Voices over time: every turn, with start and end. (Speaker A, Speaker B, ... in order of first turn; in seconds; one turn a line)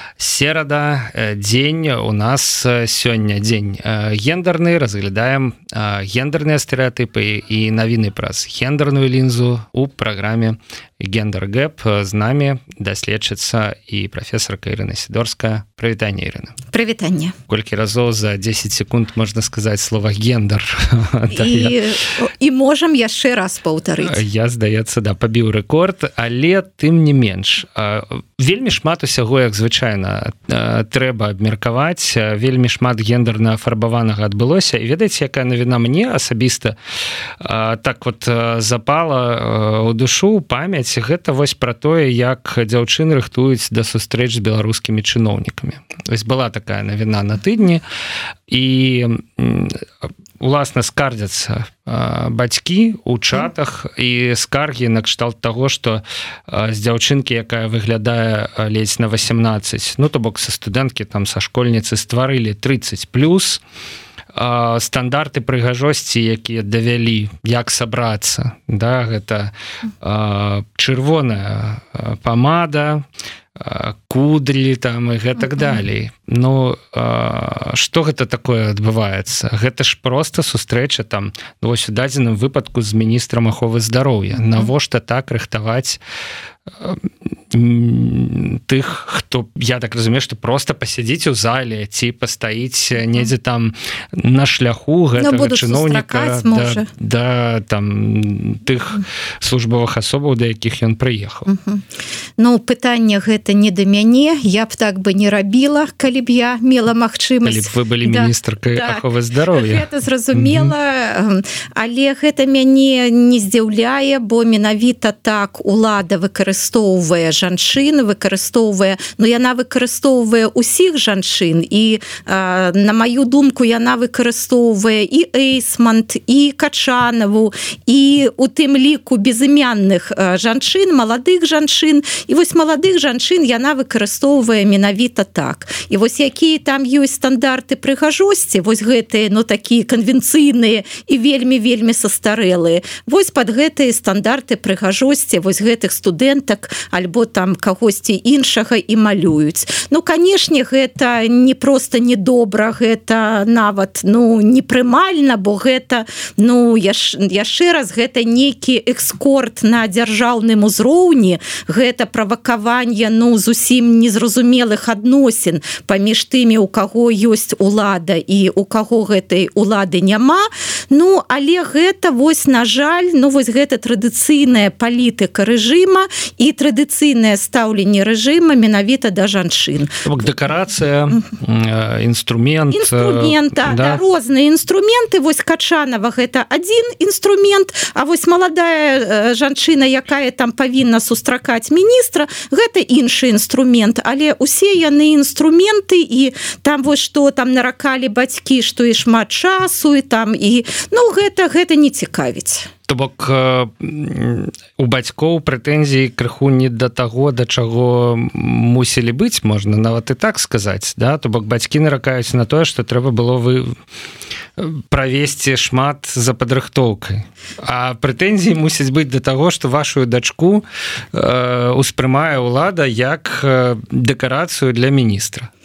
Speaker A: 0.2-16.6
Speaker B: 16.7-17.4
Speaker A: 17.5-21.8
Speaker B: 21.3-24.2
Speaker A: 24.0-36.8
Speaker A: 37.4-47.8
Speaker A: 48.5-49.8
Speaker A: 50.4-63.6
Speaker A: 64.3-73.0
Speaker A: 73.6-86.0
Speaker A: 86.8-101.5
Speaker B: 95.2-96.9
Speaker B: 101.5-101.9
Speaker B: 102.4-180.0
Speaker A: 107.4-110.7
Speaker A: 180.0-184.0
Speaker B: 182.7-202.7
Speaker A: 202.9-213.8
Speaker A: 214.6-225.5